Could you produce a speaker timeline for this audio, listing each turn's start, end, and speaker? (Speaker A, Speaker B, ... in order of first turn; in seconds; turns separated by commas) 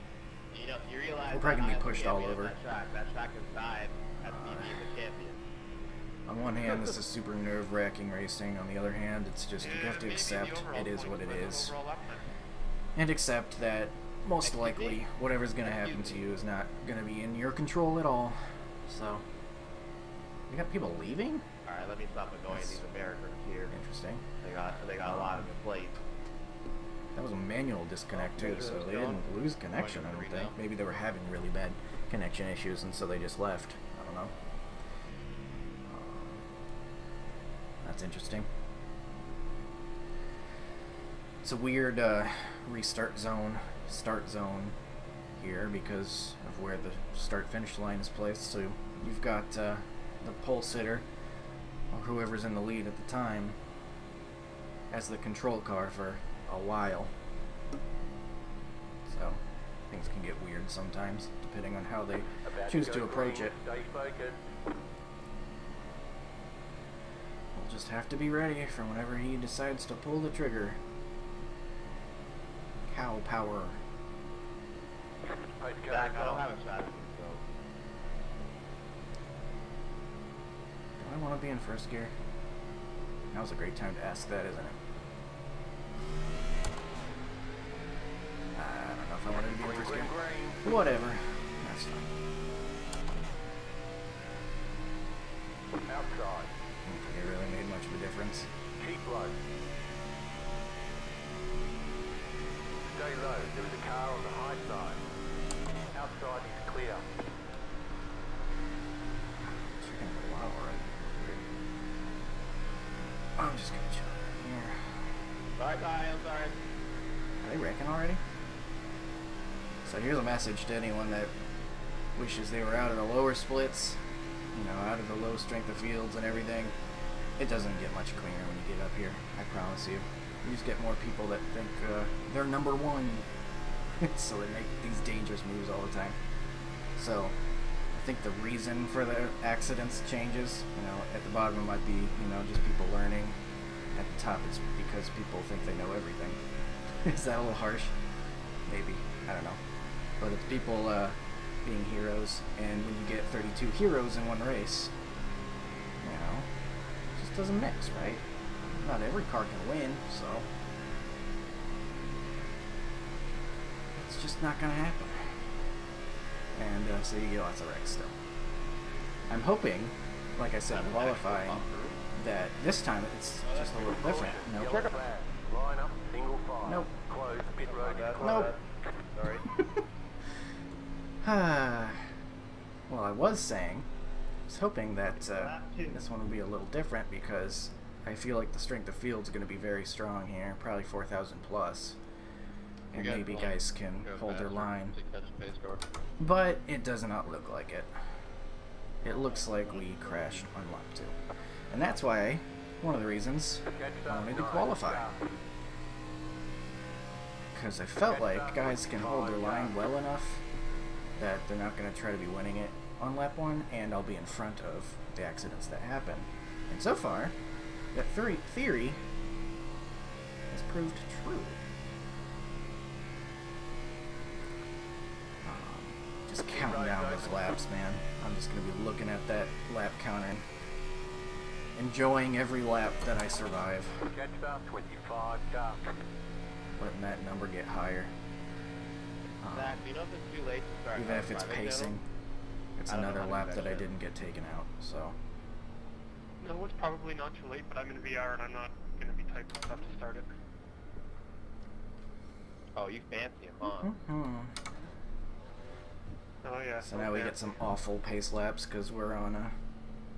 Speaker A: 0.5-5.4, Speaker B: 1.3-2.5, Speaker B: 4.2-4.8, Speaker B: 6.3-11.8, Speaker A: 6.6-6.9, Speaker C: 9.6-12.2, Speaker B: 13.0-19.2, Speaker A: 14.4-15.0, Speaker A: 15.6-16.3, Speaker B: 20.5-21.4, Speaker A: 21.7-23.8, Speaker B: 22.5-22.8, Speaker B: 23.7-24.2, Speaker A: 24.4-25.9, Speaker B: 25.0-25.5, Speaker B: 27.1-34.3, Speaker A: 28.1-30.6, Speaker B: 35.9-36.4, Speaker B: 37.8-38.5, Speaker B: 41.4-44.8, Speaker B: 45.4-51.1, Speaker B: 51.9-53.6, Speaker B: 54.9-57.1, Speaker B: 59.1-63.5, Speaker D: 62.4-64.4, Speaker B: 67.5-70.8, Speaker B: 72.9-73.8, Speaker D: 75.6-76.5, Speaker A: 75.9-77.4, Speaker B: 81.0-82.1, Speaker B: 83.3-84.8, Speaker B: 88.5-92.1, Speaker D: 89.6-90.6, Speaker D: 95.9-96.5, Speaker B: 96.8-98.5, Speaker D: 98.8-99.4, Speaker D: 102.9-105.0, Speaker D: 105.9-107.0, Speaker B: 109.5-111.4, Speaker B: 113.4-114.8, Speaker A: 115.6-116.6, Speaker B: 117.4-118.2, Speaker B: 119.8-121.3, Speaker B: 122.2-124.0, Speaker B: 124.5-126.8, Speaker B: 127.4-133.3, Speaker B: 134.0-136.2, Speaker B: 137.0-137.4, Speaker B: 137.9-143.4, Speaker B: 143.9-146.4, Speaker B: 147.0-147.9, Speaker B: 148.7-149.6, Speaker B: 150.2-154.9, Speaker B: 156.0-156.5, Speaker B: 157.2-160.5, Speaker B: 164.0-165.4, Speaker B: 166.6-168.1, Speaker B: 169.3-174.9, Speaker A: 170.7-172.0, Speaker A: 173.4-175.0, Speaker D: 173.8-178.5, Speaker B: 176.6-176.9, Speaker A: 177.6-179.5, Speaker B: 178.2-178.5, Speaker B: 179.5-179.8, Speaker B: 181.2-182.1, Speaker B: 182.9-183.9, Speaker B: 184.5-192.0, Speaker A: 185.2-186.0, Speaker B: 192.9-195.0, Speaker A: 192.9-195.8, Speaker B: 196.2-197.9, Speaker B: 199.0-201.2, Speaker A: 199.1-200.4, Speaker B: 201.7-205.1, Speaker D: 203.7-205.2, Speaker B: 207.5-210.4, Speaker D: 208.1-209.8, Speaker B: 211.2-217.3, Speaker B: 217.9-219.0, Speaker B: 220.5-221.6, Speaker B: 225.4-230.4, Speaker D: 226.5-227.5, Speaker B: 231.8-234.1, Speaker D: 234.1-235.8, Speaker B: 236.8-238.1, Speaker B: 239.4-239.8, Speaker A: 239.5-241.9, Speaker B: 240.9-242.0, Speaker B: 242.8-245.2, Speaker A: 242.9-243.9, Speaker C: 246.4-250.3, Speaker A: 252.8-253.9, Speaker B: 253.8-254.6, Speaker C: 256.4-257.4, Speaker B: 256.8-259.6